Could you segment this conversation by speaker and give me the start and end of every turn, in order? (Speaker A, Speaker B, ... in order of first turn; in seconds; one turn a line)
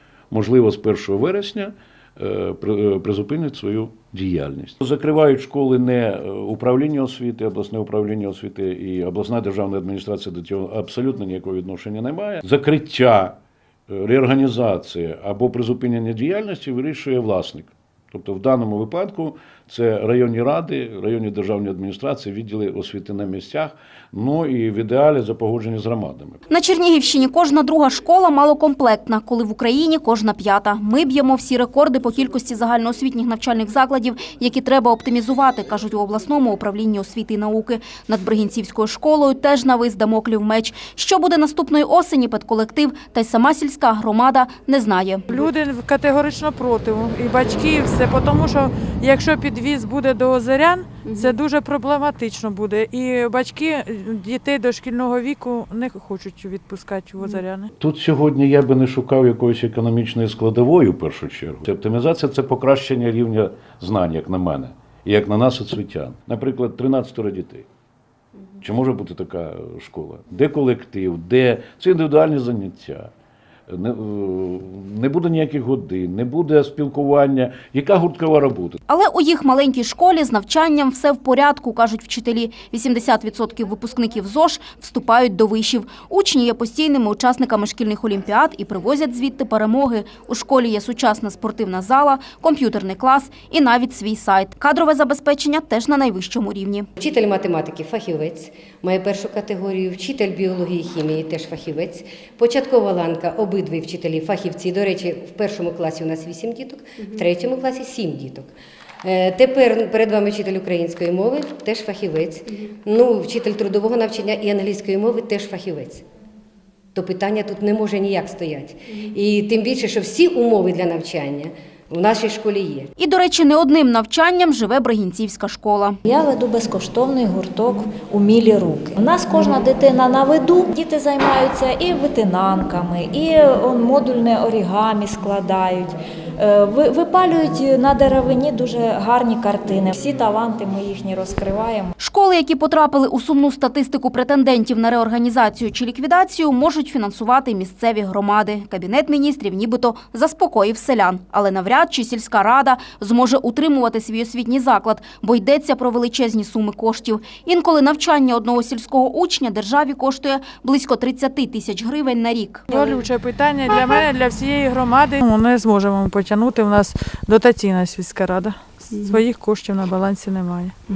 Speaker A: 0.3-13.4
Speaker A: 13.9-26.4
Speaker B: 26.5-45.3
Speaker C: 45.3-57.7
Speaker A: 57.8-67.7
Speaker A: 68.6-73.1
Speaker A: 73.7-78.8
Speaker B: 78.9-96.9
Speaker D: 97.0-108.5
Speaker D: 109.0-116.0
Speaker D: 116.9-122.9
Speaker B: 123.0-126.0
Speaker E: 126.0-141.9
Speaker B: 142.0-162.7
Speaker C: 162.7-170.8